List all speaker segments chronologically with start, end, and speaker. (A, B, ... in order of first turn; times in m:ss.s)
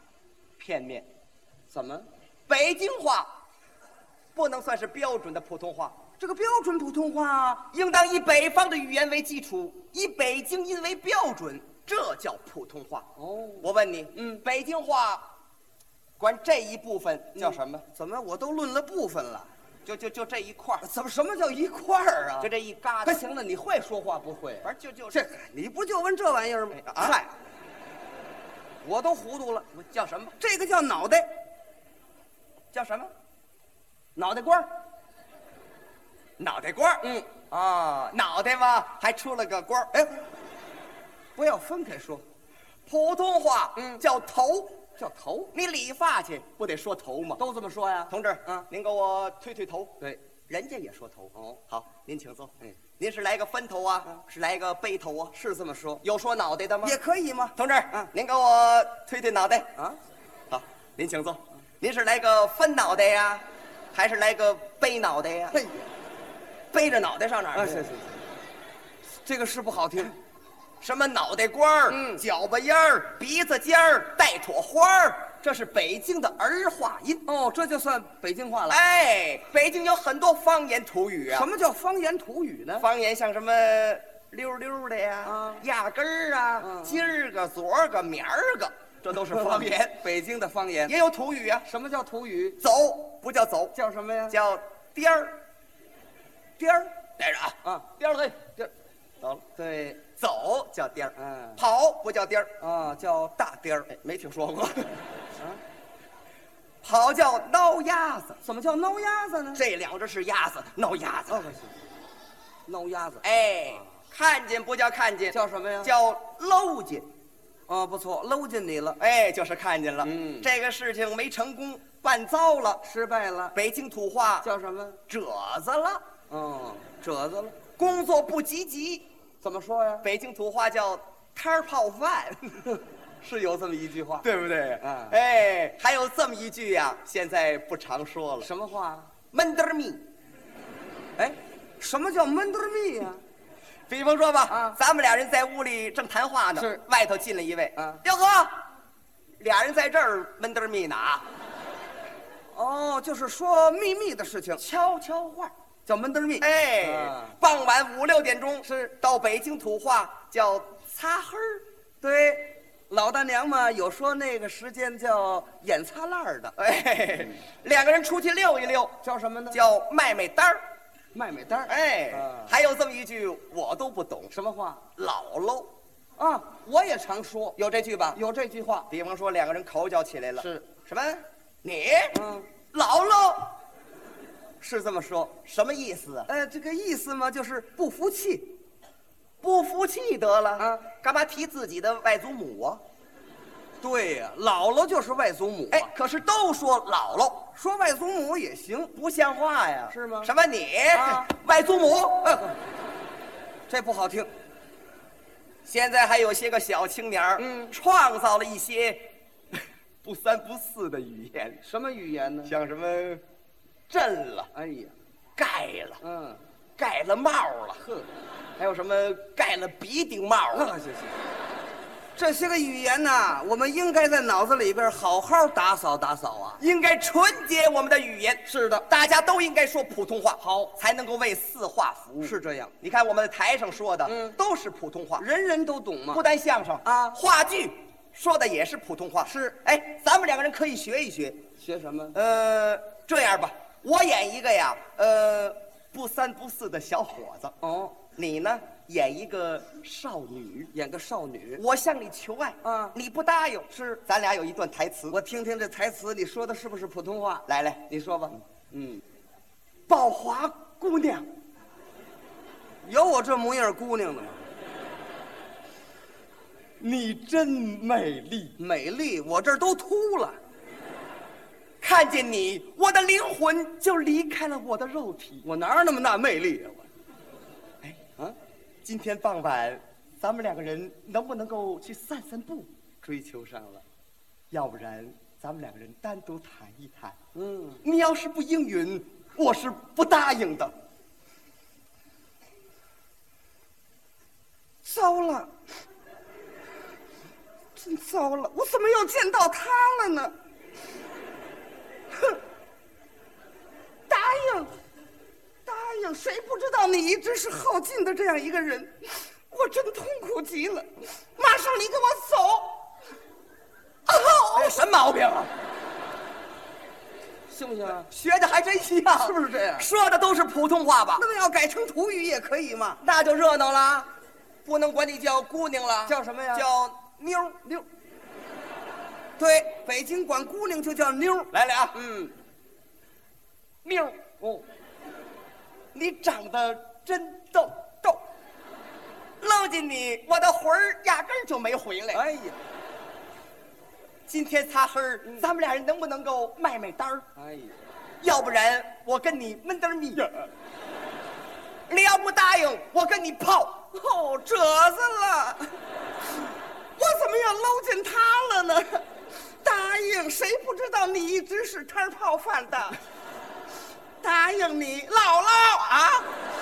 0:00.6-0:01.1 A
0:01.7-0:02.1 B
0:02.5-0:03.3 A
0:04.3-0:06.0 A
0:06.2-0:07.7 B
0:07.7-0:13.1 A
0:13.2-0:14.4 B
0:13.6-0:15.3 A
0:16.2-0:17.8 A
0:17.3-0:19.5 B
0:19.8-0:20.9 A
0:20.8-0:22.5 B
0:22.4-0:23.2 A
0:23.0-0:27.3 B
0:24.6-0:25.2 A
0:26.7-0:27.2 A
0:28.8-0:31.3 B
0:29.7-0:30.3 A
0:32.7-0:33.1 A
0:34.2-0:34.7 B
0:36.4-0:39.9 A
0:37.0-0:37.3 B
0:41.4-0:42.2 B
0:42.8-0:44.8 A
0:43.8-0:44.0 B
0:45.0-0:45.5 B
0:45.5-0:47.4 A
0:47.4-0:48.7 B
0:48.1-0:50.0 A
0:50.5-0:55.4 A
0:55.3-0:56.0 B
0:56.0-0:57.0 A
0:56.8-0:58.1 B
0:57.5-0:59.7 A
1:00.5-1:05.6 A
1:05.5-1:05.9 B
1:06.7-1:07.9 A
1:07.5-1:08.2 B
1:09.2-1:10.1 B
1:10.8-1:17.3 A
1:11.9-1:12.2 B
1:17.2-1:18.8 B
1:18.7-1:21.5 A
1:21.3-1:22.8 B
1:22.8-1:30.0 A
1:25.2-1:25.6 B
1:26.6-1:27.1 B
1:29.1-1:30.9 B
1:30.8-1:31.7 A
1:31.6-1:32.6 B
1:32.6-1:33.7 A
1:33.7-1:34.3 B
1:34.3-1:35.4 A
1:36.8-1:38.5 A
1:39.6-1:40.0 B
1:40.1-1:42.6 A
1:41.2-1:41.6 B
1:42.6-1:43.9 B
1:43.9-1:45.0 A
1:46.8-1:48.4 A
1:48.4-1:49.6 B
1:49.5-1:51.5 A
1:51.3-1:51.8 B
1:52.6-1:53.2 B
1:53.2-1:57.1 A
1:55.3-1:55.9 B
1:57.7-1:59.0 B
1:59.0-2:02.8 A
2:00.0-2:00.5 B
2:02.8-2:03.5 B
2:03.5-2:04.5 A
2:04.4-2:05.0 B
2:05.1-2:06.0 A
2:06.3-2:07.6 B
2:07.8-2:09.0 A
2:09.4-2:10.0 B
2:10.0-2:12.7 A
2:13.2-2:14.2 B
2:14.2-2:18.5 A
2:14.8-2:15.2 B
2:18.4-2:19.1 B
2:19.3-2:20.0 A
2:21.2-2:23.2 B
2:23.9-2:28.6 A
2:24.5-2:24.8 B
2:29.4-2:31.2 A
2:32.5-2:34.6 B
2:34.6-2:35.5 A
2:35.8-2:37.4 B
2:36.4-2:41.6 A
2:38.6-2:38.9 B
2:42.0-2:46.5 B
2:46.6-2:49.0 A
2:49.0-2:49.6 B
2:49.5-2:50.6 A
2:51.1-2:52.5 B
2:51.7-2:54.3 A
2:54.3-2:54.8 B
2:55.0-2:55.7 A
2:56.2-2:57.6 B
2:57.6-2:58.2 A
2:58.1-2:58.9 B
2:58.9-3:02.2 A
3:00.4-3:00.6 B
3:02.1-3:02.5 B
3:02.7-3:03.6 A
3:04.6-3:05.4 B
3:05.4-3:06.3 A
3:06.3-3:08.6 B
3:09.4-3:12.8 A
3:10.6-3:10.8 B
3:13.8-3:15.9 B
3:15.7-3:17.5 A
3:17.5-3:18.9 B
3:18.9-3:22.4 A
3:19.9-3:20.3 B
3:20.9-3:21.3 B
3:22.2-3:22.6 B
3:23.7-3:24.3 B
3:25.6-3:29.1 A
3:27.4-3:27.7 B
3:30.0-3:31.6 A
3:31.6-3:32.5 B
3:32.4-3:33.2 A
3:33.9-3:34.5 A
3:34.5-3:34.9 B
3:35.4-3:36.0 A
3:36.0-3:36.4 B
3:36.8-3:37.8 A
3:37.8-3:38.1 B
3:38.6-3:40.8 A
3:40.5-3:41.2 B
3:42.2-3:46.6 B
3:46.6-3:55.2 A
3:48.4-3:48.8 B
3:50.4-3:50.7 B
3:52.2-3:52.7 B
3:54.0-3:54.4 B
3:55.2-3:56.2 B
3:56.1-4:01.4 A
3:56.8-3:57.2 B
3:59.2-3:59.6 B
4:01.6-4:02.2 B
4:02.1-4:07.6 A
4:07.6-4:08.0 B
4:08.1-4:10.7 A
4:10.7-4:11.6 B
4:11.6-4:15.2 A
4:12.6-4:13.0 B
4:13.7-4:14.0 B
4:15.1-4:19.0 B
4:17.5-4:17.8 A
4:19.9-4:21.3 A
4:22.8-4:24.4 B
4:26.8-4:28.6 A
4:28.6-4:30.4 B
4:31.8-4:35.5 A
4:35.4-4:36.9 B
4:38.8-4:42.7 A
4:43.0-4:43.8 B
4:44.5-4:47.2 A
4:47.3-4:47.8 B
4:47.8-4:50.7 A
4:54.8-4:55.5 B
4:57.8-5:00.3 B
5:04.1-5:04.7 B
5:05.6-5:12.8 B
5:14.1-5:14.9 B
5:14.5-5:15.5 A
5:17.5-5:18.1 B
5:18.1-5:21.2 A
5:19.1-5:19.9 B
5:21.2-5:23.0 B
5:23.0-5:24.1 A
5:24.6-5:27.8 A
5:26.0-5:26.6 B
5:29.4-5:32.3 B
5:31.5-5:32.0 A
5:33.8-5:34.2 A
5:34.2-5:34.6 B
5:35.9-5:38.2 A
5:39.4-5:42.2 A
5:42.1-5:42.6 B
5:44.3-5:47.3 A
5:47.4-5:47.8 B
5:48.2-5:50.4 A
5:51.9-5:53.9 A
5:53.9-5:55.7 B
5:57.0-5:59.0 B
5:59.6-6:03.0 B
6:04.2-6:06.3 B